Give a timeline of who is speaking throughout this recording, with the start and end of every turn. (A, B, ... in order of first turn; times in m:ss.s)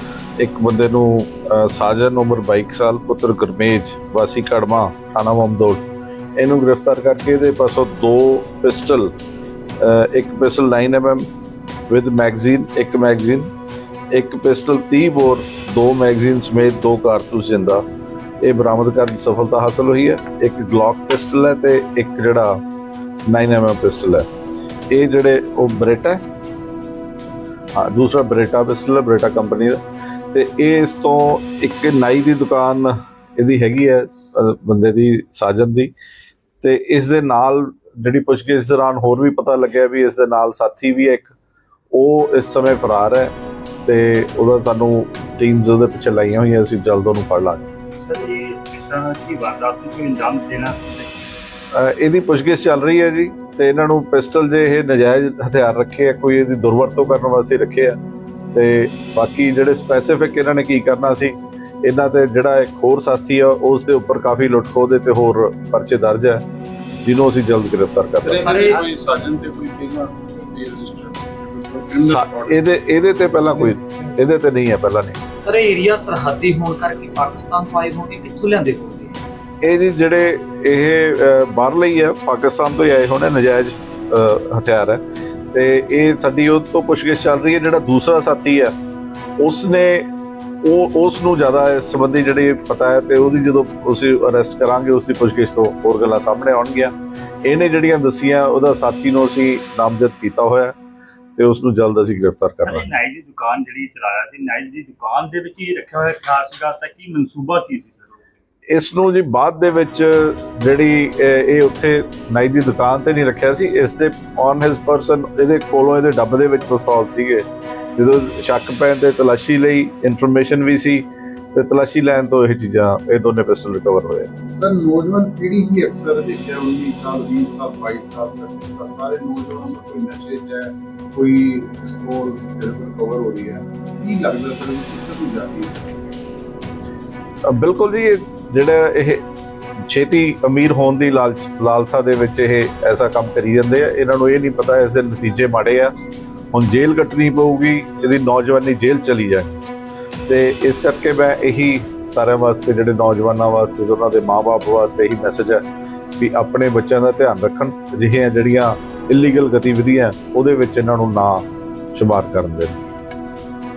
0:00.4-0:05.8 A
0:06.4-0:09.1 A
0:09.8-0:11.3 A
0:11.9-0:13.5 A
0:14.1-0:17.8 A
0:18.4-0:22.6 A
0:23.3-0:24.3 A
0:24.9-0:26.2 A
0:27.8-0:29.8 A
0:30.3-0:35.9 A
0:36.6-0:41.3 A
0:41.9-0:47.7 A
0:47.9-0:51.4 B
0:51.7-0:58.0 A
0:58.5-1:06.4 A
1:07.0-1:08.6 A
1:08.2-1:12.7 C
1:08.4-1:08.8 D
1:11.9-1:15.2 A
1:15.4-1:19.2 D
1:19.6-1:25.0 A
1:25.5-1:28.7 A
1:29.4-1:30.1 A
1:30.6-1:40.8 A
1:41.4-1:42.9 A
1:42.6-1:48.2 B
1:48.7-2:04.3 A
2:04.5-2:16.1 C
2:17.4-2:19.2 A
2:19.8-2:25.9 A
2:26.5-2:29.5 A
2:30.3-2:35.6 A
2:36.2-2:42.8 A